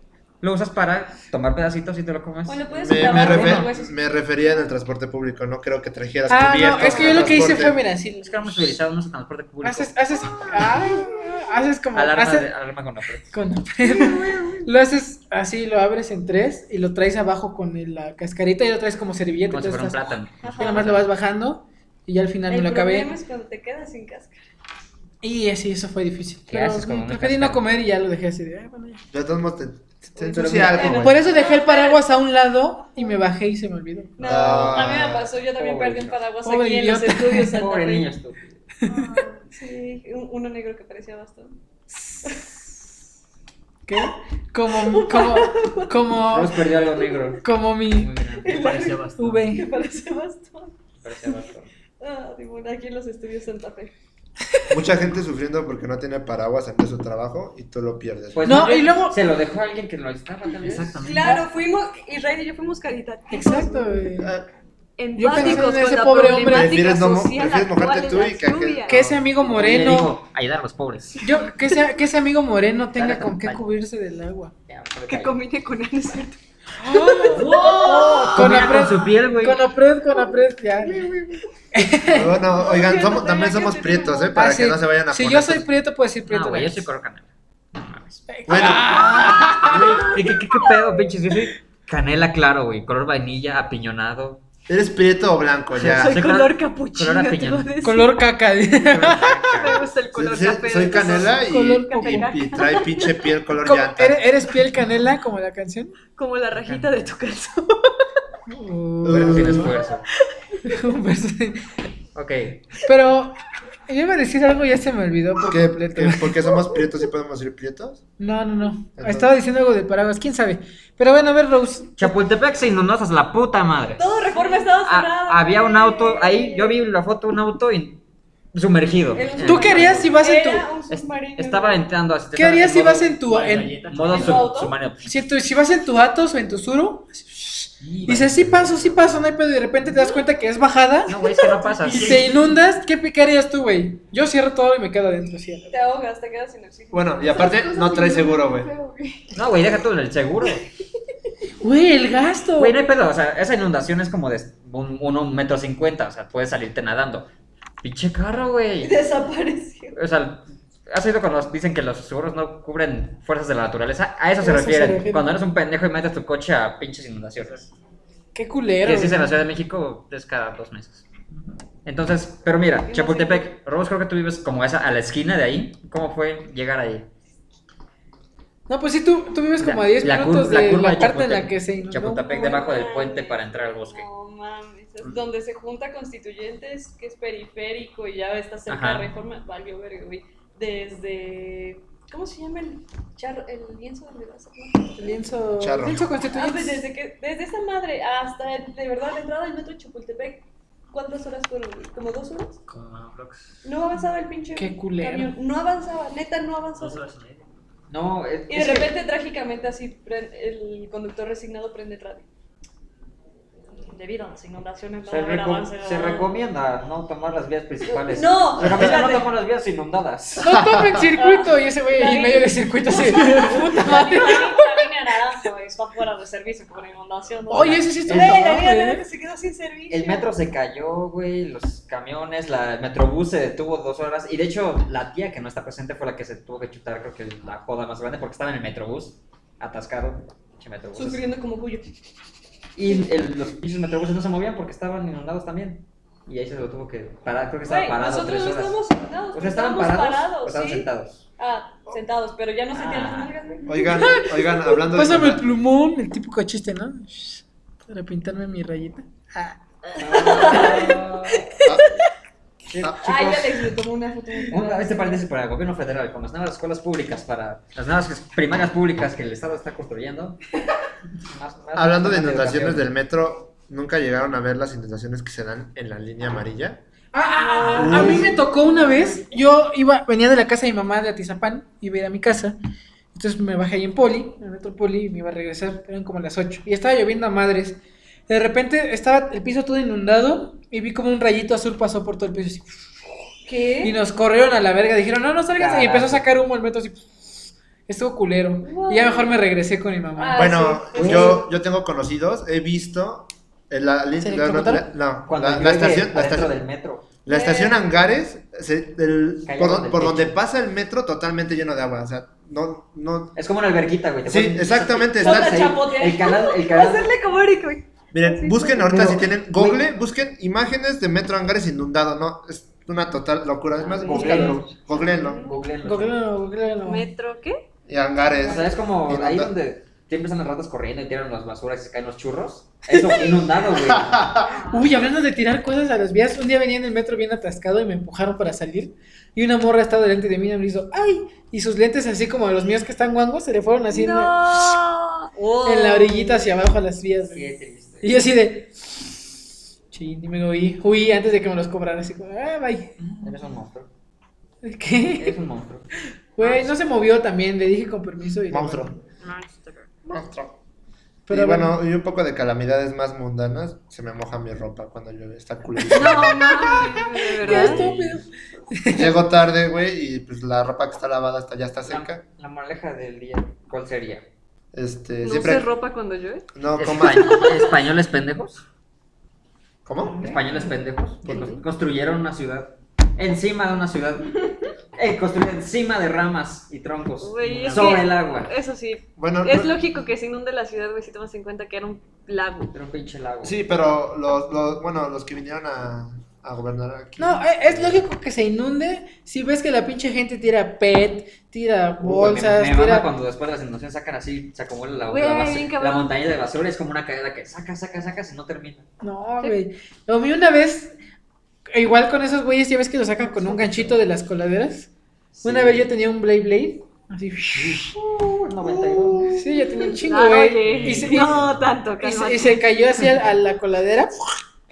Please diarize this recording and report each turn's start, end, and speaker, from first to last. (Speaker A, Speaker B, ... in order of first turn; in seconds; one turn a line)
Speaker A: 0.4-3.7
Speaker B: 2.5-4.0
Speaker C: 2.8-7.8
Speaker D: 6.3-8.6
Speaker A: 6.7-7.7
Speaker A: 8.2-10.5
Speaker D: 9.6-12.5
Speaker A: 11.9-13.3
Speaker D: 13.3-20.0
Speaker B: 13.8-14.6
Speaker A: 19.5-21.1
Speaker B: 20.4-20.9
Speaker D: 20.6-23.1
Speaker B: 22.5-24.4
Speaker D: 25.2-29.0
Speaker A: 26.5-27.6
Speaker C: 29.1-31.2
Speaker B: 30.2-32.1
Speaker A: 30.4-30.8
Speaker D: 30.5-34.1
Speaker B: 34.2-38.1
Speaker C: 34.2-35.3
Speaker A: 34.2-36.2
Speaker D: 36.4-37.6
Speaker A: 37.5-38.6
Speaker D: 38.8-39.1
Speaker B: 38.9-41.6
Speaker B: 42.2-42.7
Speaker D: 43.9-46.6
Speaker B: 44.7-46.0
Speaker A: 46.2-48.8
Speaker B: 46.8-47.4
Speaker D: 47.4-48.1
Speaker B: 48.4-51.4
Speaker E: 48.5-49.6
Speaker D: 49.2-49.6
Speaker A: 51.0-51.7
Speaker B: 52.0-53.9
Speaker C: 54.7-58.8
Speaker A: 58.3-61.0
Speaker D: 58.4-59.2
Speaker E: 60.6-61.4
Speaker B: 61.0-64.0
Speaker D: 63.3-64.3
Speaker C: 64.2-64.5
Speaker B: 65.0-69.1
Speaker D: 65.2-66.8
Speaker C: 65.3-65.8
Speaker C: 66.5-69.2
Speaker D: 68.9-70.1
Speaker A: 69.4-71.3
Speaker D: 71.2-74.5
Speaker A: 73.0-73.6
Speaker A: 74.7-75.4
Speaker B: 75.1-76.4
Speaker D: 76.8-77.7
Speaker B: 76.9-78.7
Speaker A: 77.3-79.6
Speaker E: 77.6-78.2
Speaker D: 78.3-81.0
Speaker D: 81.7-82.4
Speaker C: 82.1-85.7
Speaker B: 82.5-84.4
Speaker D: 84.3-86.9
Speaker A: 86.3-94.4
Speaker D: 88.3-90.1
Speaker C: 88.5-89.5
Speaker C: 94.7-96.2
Speaker A: 95.8-97.7
Speaker B: 95.9-98.2
Speaker D: 97.8-99.3
Speaker A: 98.8-99.9
Speaker B: 99.3-103.3
Speaker C: 100.1-104.3
Speaker D: 101.5-102.3
Speaker D: 103.6-106.0
Speaker B: 106.2-107.9
Speaker A: 106.6-106.9
Speaker D: 108.5-109.7
Speaker C: 109.0-109.8
Speaker A: 109.1-110.1
Speaker D: 110.7-111.7
Speaker A: 112.2-112.6
Speaker D: 112.8-116.4
Speaker C: 115.5-118.0
Speaker D: 118.2-122.1
Speaker C: 119.0-119.3
Speaker A: 122.0-128.0
Speaker B: 124.0-126.8
Speaker A: 128.5-130.2
Speaker B: 129.1-131.8
Speaker D: 129.4-130.7
Speaker A: 130.9-133.2
Speaker D: 132.3-133.8
Speaker E: 133.2-134.5
Speaker A: 133.9-135.2
Speaker B: 134.1-134.8
Speaker D: 135.0-141.2
Speaker E: 137.8-139.2
Speaker A: 141.1-142.2
Speaker E: 141.7-142.5
Speaker D: 141.9-145.8
Speaker B: 145.7-149.3
Speaker C: 146.9-148.7
Speaker A: 149.3-150.7
Speaker D: 151.6-152.8
Speaker A: 152.6-157.3
Speaker A: 157.8-159.0
Speaker B: 158.8-160.0
Speaker A: 159.9-167.7
Speaker D: 164.4-165.3
Speaker D: 168.3-169.3
Speaker A: 168.8-171.1
Speaker A: 171.8-177.1
Speaker B: 172.8-173.5
Speaker D: 178.7-182.6
Speaker A: 179.6-184.1
Speaker B: 182.3-195.2
Speaker A: 188.7-189.1
Speaker D: 195.0-196.8
Speaker C: 195.6-196.1
Speaker B: 196.3-202.6
Speaker E: 202.7-203.7
Speaker B: 203.6-207.0
Speaker D: 204.6-205.3
Speaker E: 206.8-207.5
Speaker A: 207.9-208.9
Speaker B: 208.5-212.3
Speaker B: 213.8-216.3
Speaker A: 215.1-220.7
Speaker B: 217.9-219.3
Speaker C: 218.6-218.9
Speaker D: 220.4-224.7
Speaker C: 220.5-220.9
Speaker B: 221.2-230.3
Speaker D: 227.5-229.0
Speaker A: 227.5-228.6
Speaker A: 229.9-241.2
Speaker B: 240.9-241.9
Speaker A: 242.8-248.8
Speaker B: 247.7-254.2
Speaker A: 249.3-251.2
Speaker A: 252.7-253.3
Speaker C: 253.7-255.4
Speaker D: 254.0-259.6
Speaker B: 259.9-261.1
Speaker A: 260.0-261.6
Speaker D: 260.5-262.0
Speaker A: 262.7-263.4
Speaker C: 262.8-263.4
Speaker B: 263.0-265.2
Speaker A: 264.5-270.4
Speaker A: 271.2-272.9
Speaker C: 271.8-276.8
Speaker D: 277.1-282.6
Speaker B: 277.4-279.4
Speaker C: 277.8-278.4
Speaker A: 277.9-278.2
Speaker D: 283.1-293.1
Speaker B: 293.5-293.9
Speaker D: 293.8-300.6
Speaker A: 295.6-296.3
Speaker B: 298.6-299.4
Speaker B: 300.2-301.4
Speaker C: 300.3-306.6
Speaker A: 300.9-301.4
Speaker D: 304.2-304.9
Speaker A: 305.3-307.1
Speaker C: 307.2-313.4
Speaker B: 307.3-307.9
Speaker A: 309.4-310.4
Speaker A: 313.4-317.1
Speaker C: 314.3-315.8
Speaker B: 315.2-319.1
Speaker C: 318.1-325.5
Speaker A: 318.9-319.8
Speaker B: 323.9-325.6
Speaker A: 323.9-326.2
Speaker D: 325.8-327.1
Speaker B: 326.8-327.7
Speaker C: 327.9-329.5
Speaker A: 328.4-334.4
Speaker D: 332.9-333.5
Speaker C: 333.8-334.5
Speaker B: 334.5-334.9
Speaker D: 334.7-344.8
Speaker B: 343.9-346.5
Speaker D: 345.6-347.5
Speaker A: 347.3-348.2
Speaker D: 348.0-349.3
Speaker D: 349.9-352.9
Speaker A: 353.0-353.9
Speaker D: 354.6-355.4
Speaker A: 355.2-355.9
Speaker D: 356.4-358.9
Speaker C: 358.5-358.9
Speaker B: 359.2-360.2
Speaker C: 360.1-360.5
Speaker D: 361.3-361.8
Speaker C: 361.3-366.9
Speaker B: 365.9-367.9
Speaker D: 367.4-369.2
Speaker A: 367.4-368.1
Speaker C: 368.9-372.2
Speaker A: 371.9-374.3
Speaker C: 374.7-375.7
Speaker B: 375.2-377.7
Speaker C: 376.6-377.5
Speaker A: 376.8-378.6
Speaker C: 379.9-380.4
Speaker A: 380.2-388.5
Speaker B: 381.2-381.6
Speaker B: 387.2-392.7
Speaker E: 387.5-387.8
Speaker C: 389.2-389.8
Speaker A: 392.7-393.6
Speaker C: 393.4-398.0
Speaker D: 397.2-403.1
Speaker A: 402.0-408.9
Speaker B: 405.1-406.1
Speaker D: 409.0-410.9
Speaker D: 411.7-414.9
Speaker A: 413.4-414.0
Speaker A: 415.3-415.9
Speaker D: 415.4-417.9
Speaker A: 417.6-419.4
Speaker D: 419.3-421.4
Speaker B: 419.8-422.6
Speaker E: 420.6-421.8
Speaker D: 422.0-424.3